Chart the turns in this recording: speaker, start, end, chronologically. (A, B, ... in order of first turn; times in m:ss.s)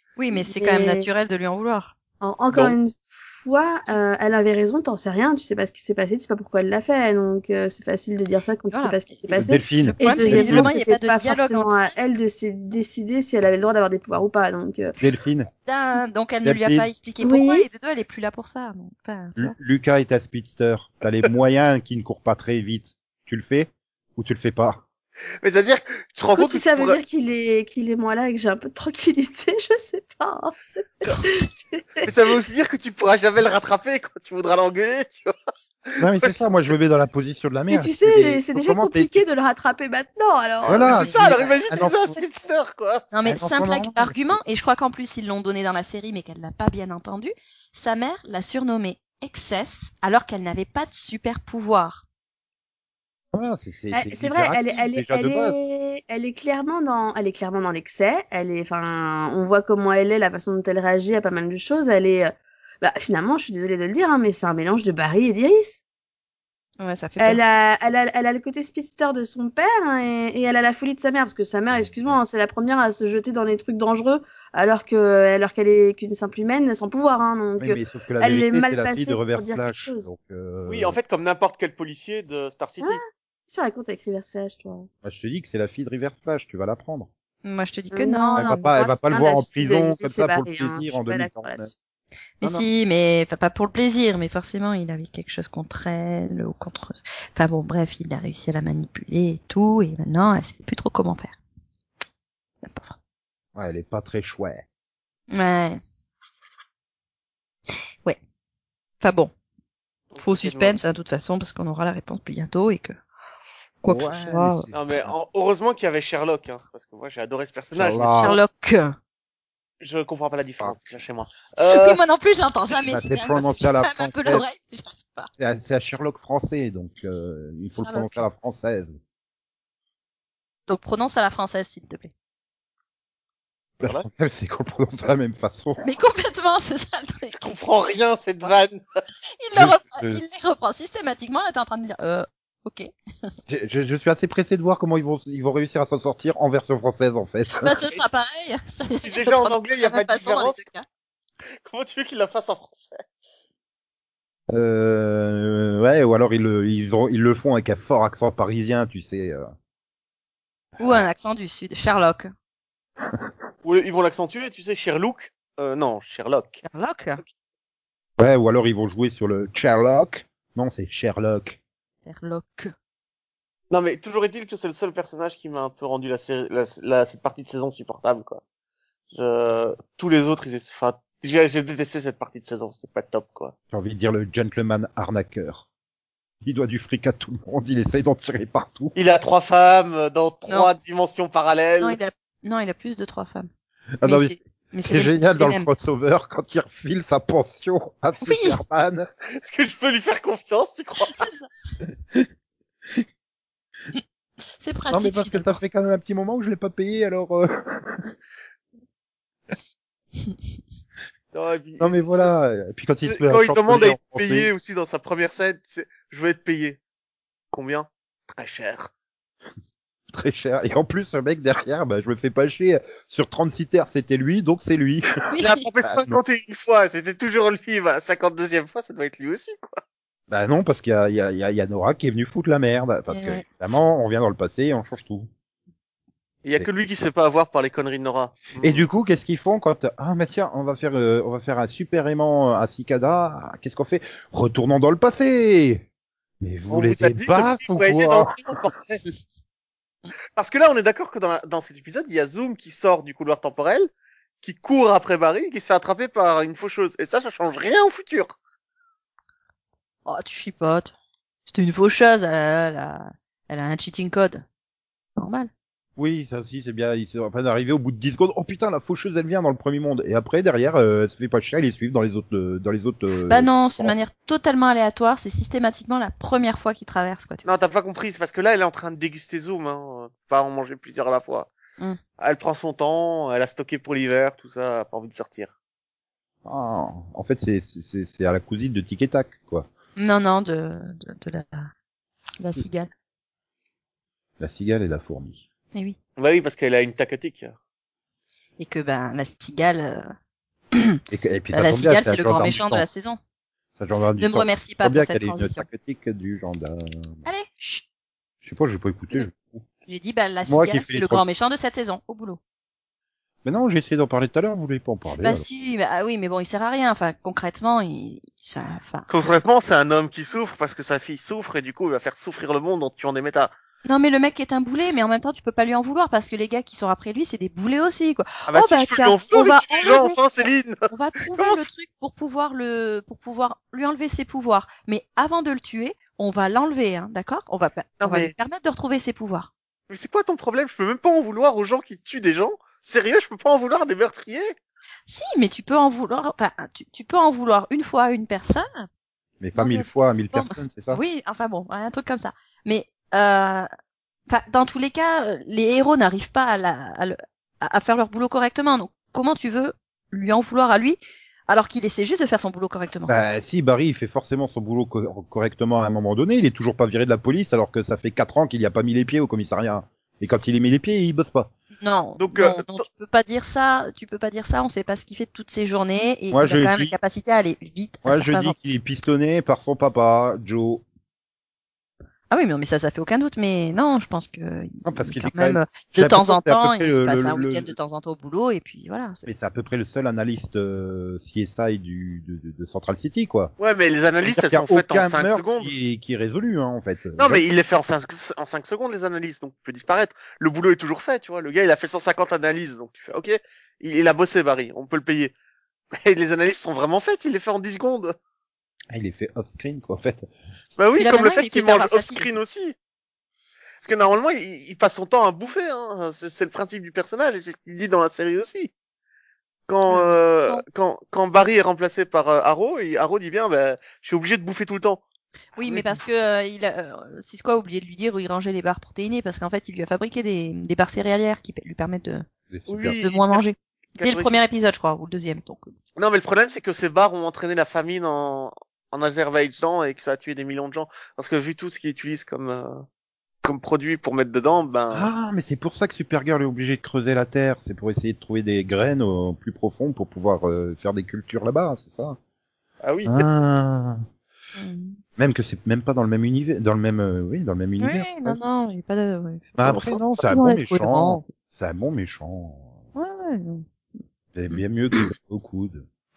0:00.2-0:02.0 A
0:00.3-0:01.1 B
0:02.2-0:14.9 B
0:08.7-0:09.0 A
0:09.3-0:10.7 C
0:09.9-0:11.9 A
0:15.0-0:15.5 C
0:15.6-0:19.6 A
0:16.4-0:16.9 C
0:17.2-0:17.7 B
0:19.4-0:24.8 C
0:25.4-0:27.0 D
0:26.4-0:32.3 B
0:32.0-0:35.3 D
0:35.9-0:36.4 D
0:36.0-0:39.2 C
0:37.7-0:40.9 B
0:40.6-0:42.1 C
0:40.6-0:43.1 D
0:40.9-0:41.7 A
0:43.1-0:52.0 A
0:43.2-0:44.4 C
0:53.3-0:55.6 C
0:53.9-1:05.8 B
1:06.8-1:07.4 A
1:07.2-1:20.1 B
1:11.7-1:12.2 C
1:17.6-1:21.0 C
1:20.7-1:23.0 D
1:22.8-1:24.9 B
1:25.0-1:27.1 C
1:27.4-1:28.7 A
1:27.9-1:31.7 B
1:28.4-1:31.7 C
1:32.4-1:41.4 A
1:32.4-1:32.7 C
1:42.6-1:43.0 A
1:43.6-1:44.6 C
1:45.3-1:45.8 A
1:49.0-1:49.3 A
1:50.1-1:50.8 D
1:50.2-1:53.0 A
1:53.8-1:54.7 A
1:53.9-1:55.1 C
1:54.7-1:58.3 D
1:57.7-1:58.4 C
1:58.2-1:59.0 A
1:59.8-2:02.0 D
2:01.6-2:05.3 A
2:02.9-2:04.4 C
2:05.4-2:09.0 C
2:07.8-2:08.3 A
2:10.7-2:12.1 A
2:13.8-2:15.8 C
2:15.8-2:17.4 A
2:17.4-2:18.8 D
2:19.4-2:23.3 A
2:19.6-2:20.2 C
2:23.5-2:27.8 C
2:27.6-2:30.8 A
2:29.0-2:30.6 D
2:31.6-2:33.0 D
2:34.5-2:39.5 C
2:40.8-2:41.1 C
2:40.8-2:42.3 A
2:43.6-2:46.6 D
2:46.6-2:47.2 A
2:48.2-2:51.6 C
2:52.1-2:52.7 A
2:53.7-2:58.4 D
2:59.1-3:03.5 D
3:03.7-3:05.7 C
3:06.4-3:09.0 C
3:09.0-3:12.0 D
3:11.8-3:13.5 A
3:14.0-3:19.1 C
3:14.0-3:15.7 A
3:18.2-3:18.6 A
3:19.4-3:21.3 D
3:21.1-3:21.4 A
3:24.6-3:25.6 A
3:24.9-3:28.1 C
3:31.3-3:32.3 D
3:31.8-3:34.5 C
3:33.1-3:36.8 D
3:37.5-3:38.9 D
3:40.1-3:45.0 C
3:45.3-3:45.6 A
3:45.4-3:49.8 D
3:45.9-3:46.2 C
3:50.3-3:55.3 C
3:53.1-3:53.4 A
3:56.4-3:58.9 D
3:58.6-4:05.8 C
4:06.4-4:08.3 C
4:06.7-4:09.0 D
4:10.4-4:13.9 D
4:14.4-4:18.4 D
4:20.0-4:20.9 A
4:21.5-4:24.4 A
4:25.2-4:25.5 A
4:26.0-4:34.0 C
4:33.3-4:37.5 A
4:37.4-4:41.5 D
4:42.2-4:45.5 D
4:46.4-4:49.7 C
4:50.0-4:51.7 A
4:52.4-4:52.9 A
4:54.4-4:55.5 C
4:56.2-4:57.5 D
4:58.6-5:00.1 A
5:00.7-5:01.0 A
5:01.1-5:02.8 C
5:01.5-5:03.2 A
5:03.8-5:07.2 C
5:04.2-5:05.7 A
5:07.2-5:07.8 A
5:08.4-5:09.6 C
5:09.9-5:12.4 A
5:10.5-5:11.2 C
5:13.4-5:15.5 C
5:15.2-5:19.4 A
5:19.1-5:23.5 D
5:23.8-5:30.2 A
5:28.5-5:31.6 D
5:30.9-5:39.5 A
5:38.0-5:38.3 D
5:39.9-5:44.6 D
5:45.1-5:48.9 A
5:49.4-5:51.0 C
5:49.6-5:53.7 A
5:54.3-6:03.2 A
6:03.1-6:11.5 C
6:11.8-6:18.5 A
6:12.2-6:12.8 D
6:16.3-6:17.0 C
6:18.0-6:20.8 C
6:22.3-6:29.3 A
6:24.8-6:27.8 C
6:29.3-6:33.5 C
6:33.6-6:35.7 D
6:34.2-6:37.4 C
6:37.2-6:45.3 D
6:45.9-6:48.2 D
6:48.9-6:50.3 C
6:50.8-6:52.8 D
6:51.0-6:52.3 A
6:53.8-6:58.7 D
6:59.7-7:05.0 D
6:59.9-7:00.6 A
7:05.6-7:12.3 A
7:05.6-7:06.0 D
7:12.5-7:13.0 C
7:12.7-7:13.4 D
7:13.0-7:15.7 A
7:14.0-7:14.4 D
7:16.0-7:22.8 D
7:23.4-7:25.1 D
7:24.9-7:32.2 C
7:32.8-7:33.3 D
7:33.1-7:34.0 C
7:34.6-7:35.0 A
7:35.2-7:38.4 C
7:37.8-7:41.3 A
7:39.6-7:42.8 C
7:43.0-7:43.6 A
7:44.4-7:45.9 C
7:44.5-7:45.1 A